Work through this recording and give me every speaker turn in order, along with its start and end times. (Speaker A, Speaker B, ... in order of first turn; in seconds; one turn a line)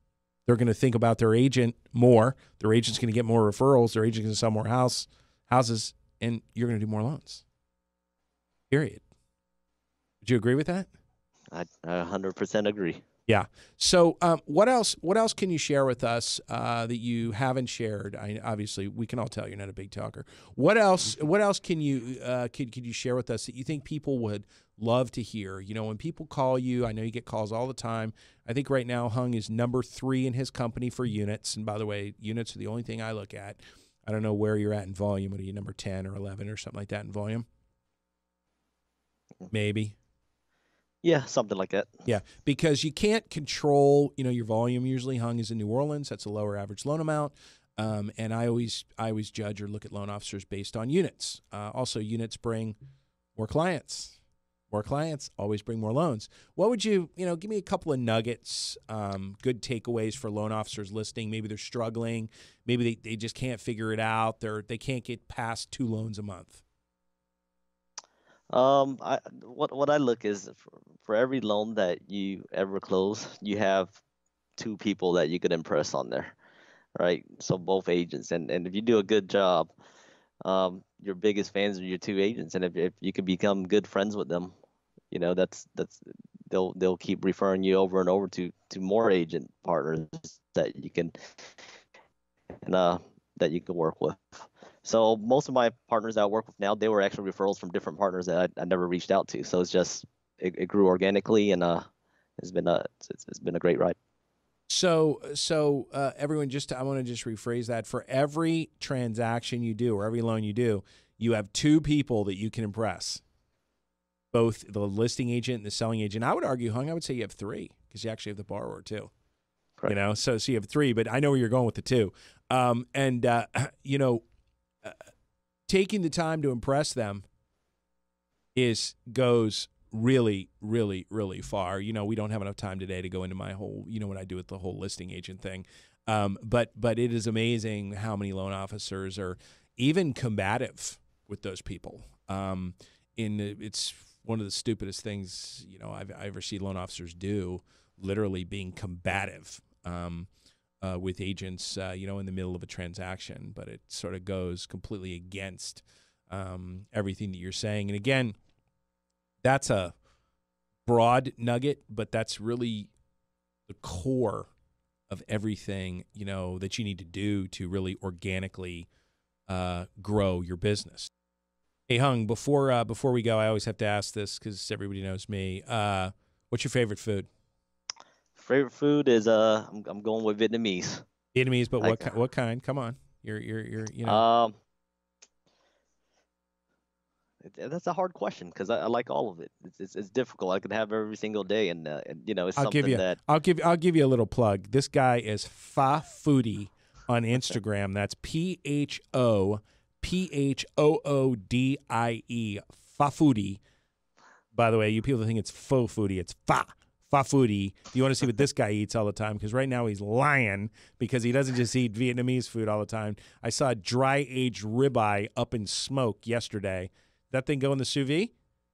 Speaker A: 0.5-7.4
Speaker A: 8.7-9.1
Speaker A: 10.2-10.9
Speaker B: 11.5-13.0
Speaker A: 13.3-37.5
Speaker A: 39.5-40.0
Speaker B: 41.0-41.9
Speaker A: 42.1-52.8
Speaker A: 53.4-54.2
Speaker A: 54.7-66.6
Speaker B: 68.5-74.0
Speaker B: 74.6-76.4
Speaker B: 77.0-79.7
Speaker B: 80.5-84.5
Speaker B: 85.1-91.5
Speaker B: 92.6-101.9
Speaker B: 102.4-104.0
Speaker A: 104.7-113.2
Speaker A: 114.3-119.1
Speaker A: 119.9-124.2
Speaker A: 125.7-127.2
Speaker A: 128.6-150.3
Speaker A: 150.8-158.3
Speaker A: 159.4-159.9
Speaker A: 160.9-162.9
Speaker A: 163.7-164.5
Speaker A: 165.1-168.9
Speaker A: 169.5-171.1
Speaker A: 171.9-177.3
Speaker B: 178.4-181.0
Speaker A: 181.3-184.2
Speaker B: 181.8-182.1
Speaker B: 184.1-184.6
Speaker B: 187.4-193.2
Speaker A: 192.6-203.6
Speaker A: 204.5-218.3